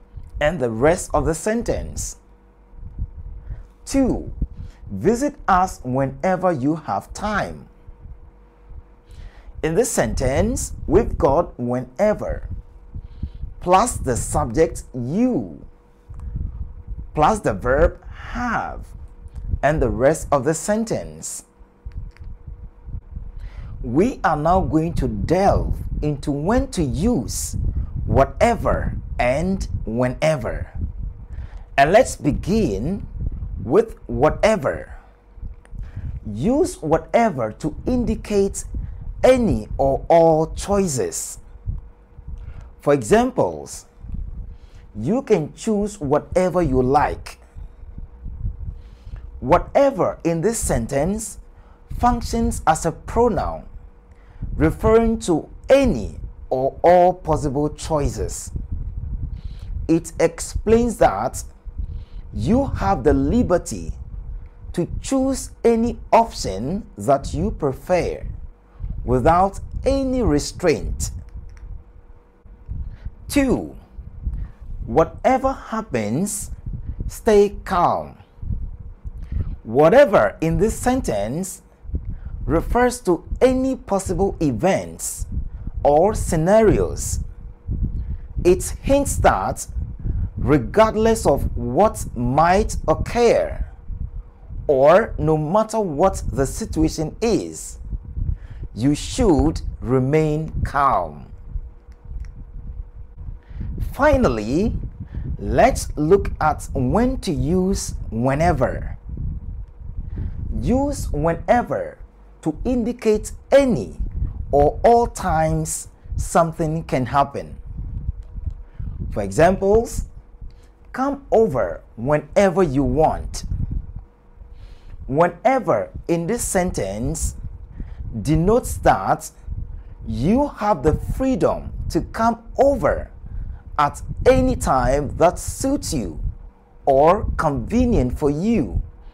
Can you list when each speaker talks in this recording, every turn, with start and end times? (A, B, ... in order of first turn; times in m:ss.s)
0:00.4-0:02.2 A
0:03.8-0:04.4 A
0:04.9-0:07.7 A
0:09.6-0:12.5 A
0:13.6-0:15.7 A
0:17.1-0:18.9 A
0:19.6-0:21.4 A
0:23.8-0:30.7 A
0:31.8-0:33.1 A
0:33.6-0:35.0 A
0:36.2-0:38.7 A
0:39.2-0:41.4 A
0:42.8-0:43.9 A
0:45.0-0:47.4 A
0:49.4-0:53.7 A
0:54.6-0:58.5 A
0:59.9-1:01.4 A
1:02.3-1:04.0 A
1:04.7-1:08.3 A
1:09.0-1:11.1 A
1:13.3-1:13.8 A
1:14.8-1:16.5 A
1:17.1-1:18.2 A
1:19.6-1:21.6 A
1:22.5-1:25.3 A
1:25.8-1:27.2 A
1:28.4-1:29.7 A
1:30.4-1:33.7 A
1:34.7-1:37.8 A
1:38.7-1:41.3 A
1:43.8-1:44.8 A
1:45.4-1:49.0 A
1:50.5-1:57.6 A
1:59.1-2:00.1 A
2:00.9-2:03.5 A
2:05.1-2:07.4 A
2:08.1-2:09.3 A
2:10.0-2:13.1 A
2:13.8-2:16.2 A
2:16.9-2:18.8 A